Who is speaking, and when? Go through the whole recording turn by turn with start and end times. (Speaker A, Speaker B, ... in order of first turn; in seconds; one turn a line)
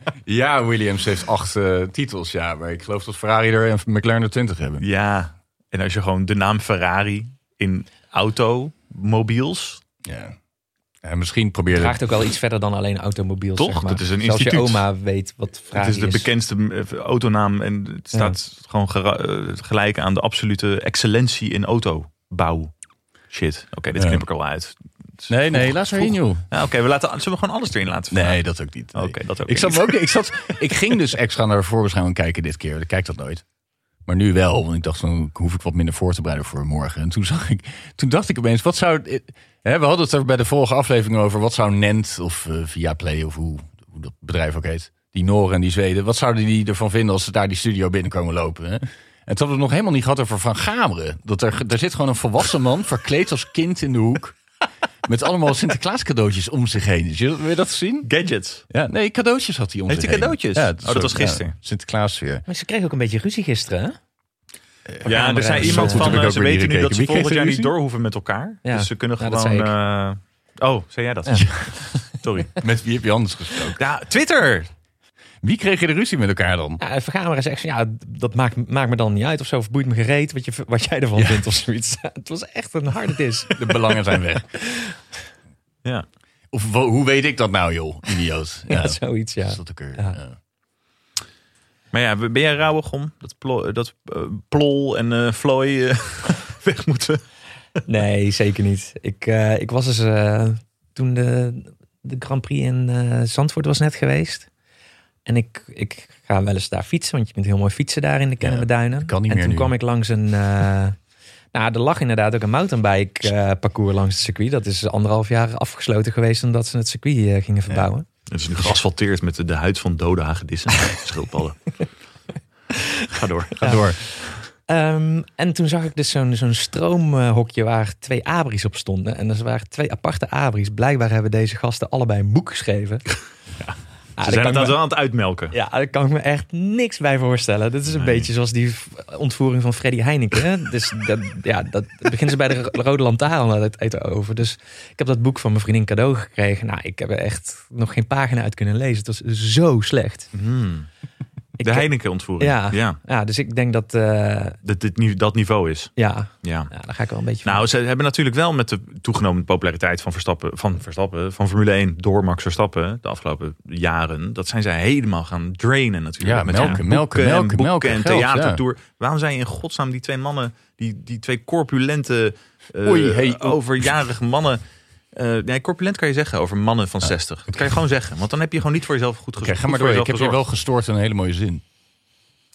Speaker A: 0.2-4.8
Speaker B: 4.8-9.8
Speaker A: 10.0-10.3
Speaker A: 11.0-12.0
Speaker C: 11.7-16.3
Speaker B: 13.6-14.8
Speaker B: 15.7-22.7
Speaker B: 23.3-28.4
Speaker A: 23.9-24.2
Speaker A: 25.3-26.4
Speaker A: 28.1-33.4
Speaker B: 28.9-30.0
Speaker A: 34.0-54.4
Speaker A: 55.0-58.1
Speaker B: 58.0-58.6
Speaker A: 58.7-62.4
Speaker B: 59.9-61.5
Speaker C: 62.5-64.0
Speaker A: 64.9-67.7
Speaker C: 65.0-66.2
Speaker B: 65.0-72.6
Speaker C: 68.6-69.7
Speaker A: 72.6-73.8
Speaker B: 73.8-74.7
Speaker A: 75.4-76.8
Speaker C: 76.8-85.0
Speaker A: 81.2-81.4
Speaker A: 83.5-84.5
Speaker A: 86.5-90.3
Speaker C: 88.7-90.2
Speaker B: 91.9-97.2
Speaker C: 97.9-104.5
Speaker C: 105.2-111.0
Speaker A: 108.4-109.7
Speaker C: 111.5-118.0
Speaker B: 118.3-121.6
Speaker B: 123.1-123.9
Speaker C: 123.6-133.1
Speaker A: 123.6-124.0
Speaker B: 133.6-135.5
Speaker C: 134.2-134.8
Speaker C: 135.5-150.3
Speaker B: 150.3-150.9
Speaker C: 151.6-154.6
Speaker B: 151.6-153.0
Speaker B: 154.6-156.7
Speaker C: 156.0-157.6
Speaker B: 157.4-174.6
Speaker A: 166.2-168.6
Speaker A: 172.8-173.6
Speaker B: 175.1-180.4
Speaker A: 179.4-181.6